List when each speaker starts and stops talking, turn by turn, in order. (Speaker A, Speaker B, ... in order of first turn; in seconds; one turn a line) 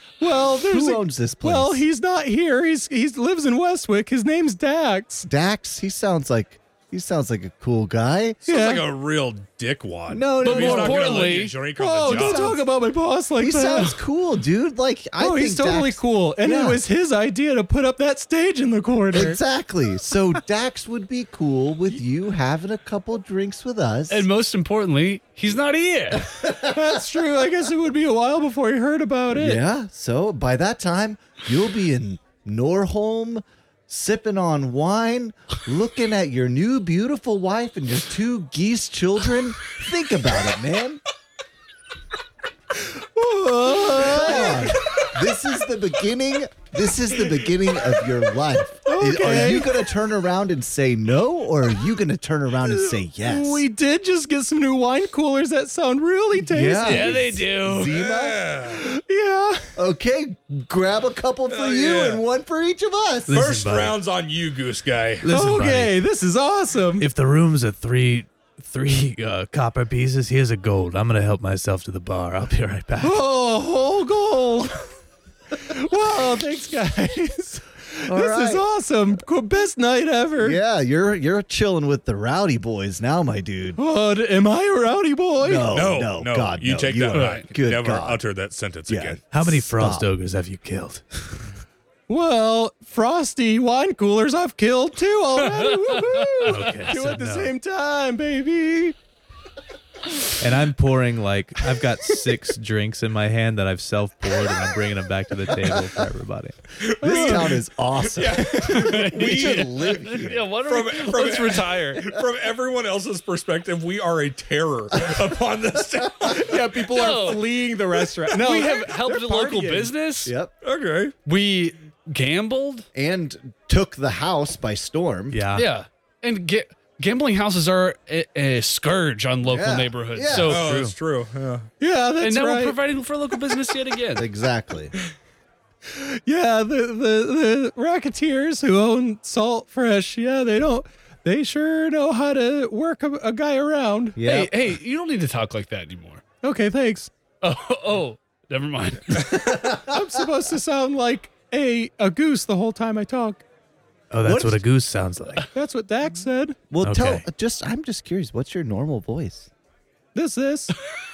Speaker A: 0.2-5.3
Speaker B: 0.7-1.8
Speaker B: 5.2-8.4
Speaker C: 8.5-12.6
Speaker A: 8.5-8.8
Speaker B: 10.1-11.2
Speaker D: 10.4-11.6
Speaker A: 11.8-14.0
Speaker B: 12.1-12.6
Speaker B: 13.4-16.8
Speaker A: 15.2-19.4
Speaker B: 19.1-24.3
Speaker D: 24.1-26.4
Speaker B: 26.4-27.0
Speaker A: 26.6-29.6
Speaker B: 29.3-41.0
Speaker A: 42.8-45.1
Speaker B: 43.7-53.6
Speaker A: 48.9-49.7
Speaker A: 52.7-57.3
Speaker B: 56.4-58.4
Speaker D: 56.8-57.9
Speaker C: 57.7-58.9
Speaker A: 58.7-59.7
Speaker B: 59.8-63.4
Speaker C: 61.5-62.2
Speaker E: 63.3-64.0
Speaker C: 63.3-65.3
Speaker E: 65.2-66.0
Speaker A: 65.3-67.1
Speaker E: 67.0-73.2
Speaker A: 73.0-75.0
Speaker A: 75.5-80.6
Speaker B: 78.1-78.7
Speaker B: 80.4-83.8
Speaker A: 83.8-85.8
Speaker B: 85.4-88.2
Speaker C: 85.7-89.2
Speaker D: 87.1-87.5
Speaker B: 88.9-90.1
Speaker E: 89.3-91.5
Speaker A: 92.1-99.0
Speaker D: 95.8-96.2
Speaker E: 96.5-97.5
Speaker E: 100.4-106.6
Speaker B: 105.6-106.0
Speaker C: 106.8-110.0
Speaker B: 107.0-110.5
Speaker A: 107.0-107.5
Speaker D: 108.6-112.1
Speaker C: 110.6-116.7
Speaker A: 116.3-119.9
Speaker D: 116.9-117.5
Speaker D: 118.3-120.3
Speaker B: 120.2-120.5
Speaker C: 120.6-121.2
Speaker D: 121.2-122.9
Speaker B: 123.0-125.5
Speaker E: 125.3-125.7
Speaker D: 125.5-130.7
Speaker B: 129.5-130.6
Speaker C: 130.3-131.7
Speaker E: 130.5-130.9
Speaker A: 131.8-132.8
Speaker D: 132.2-134.3
Speaker B: 134.2-134.9
Speaker A: 135.9-144.2
Speaker B: 144.2-144.5
Speaker D: 144.2-146.2
Speaker A: 146.4-147.1
Speaker D: 147.4-149.5
Speaker B: 149.2-150.0
Speaker A: 149.7-153.4
Speaker E: 154.1-155.5
Speaker B: 154.2-154.6
Speaker A: 155.5-156.6
Speaker B: 156.7-159.5
Speaker E: 156.8-157.2
Speaker A: 160.2-160.8